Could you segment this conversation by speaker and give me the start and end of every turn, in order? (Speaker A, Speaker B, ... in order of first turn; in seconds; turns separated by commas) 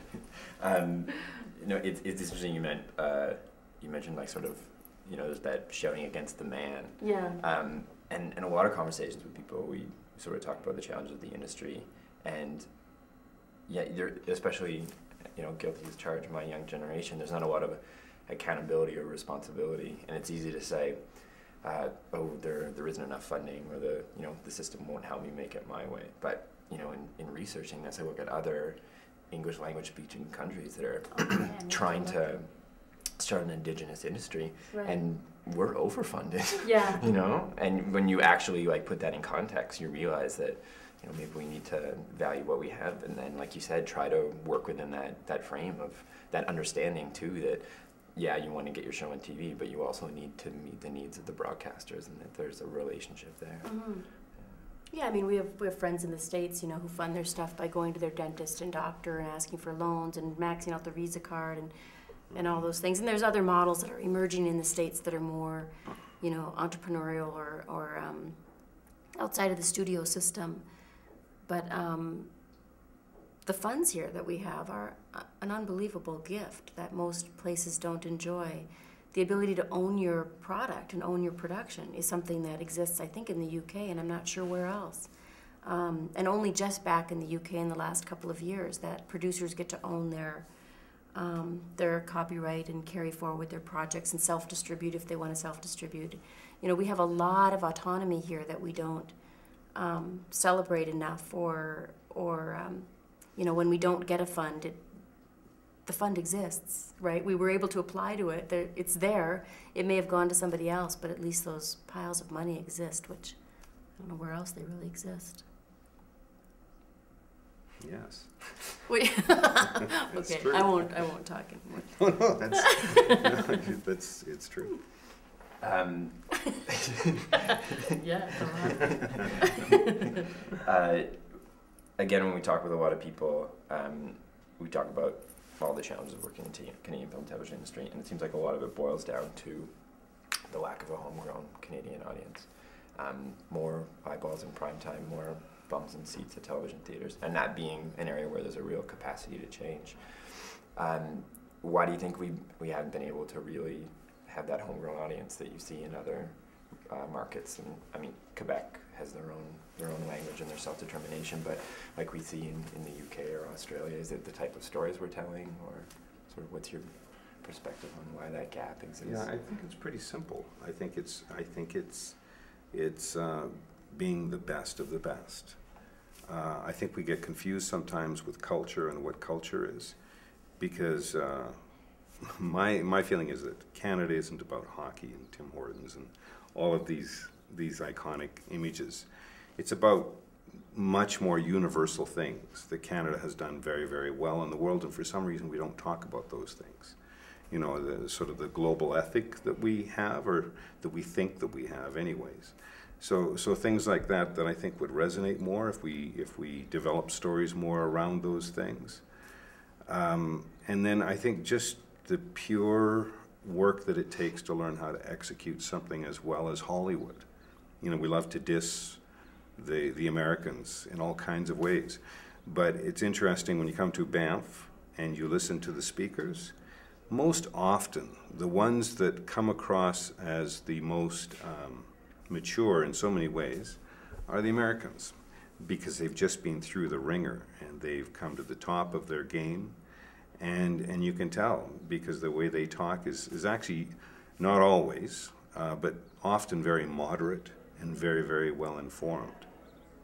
Speaker A: 0.6-54.7, Speaker B: 7.0-7.4, Speaker B: 31.1-32.4, Speaker B: 34.7-35.0, Speaker B: 36.6-37.1, Speaker B: 53.6-54.3, Speaker B: 54.9-70.7, Speaker C: 62.3-62.7, Speaker B: 71.4-72.4, Speaker B: 73.4-115.5, Speaker C: 117.8-118.8, Speaker B: 118.9-123.1, Speaker C: 120.1-121.5, Speaker C: 122.0-124.9, Speaker A: 125.6-126.7, Speaker B: 128.0-129.2, Speaker A: 130.6-169.3, Speaker C: 169.0-181.6, Speaker C: 182.1-209.2, Speaker C: 209.8-239.8, Speaker C: 240.3-249.5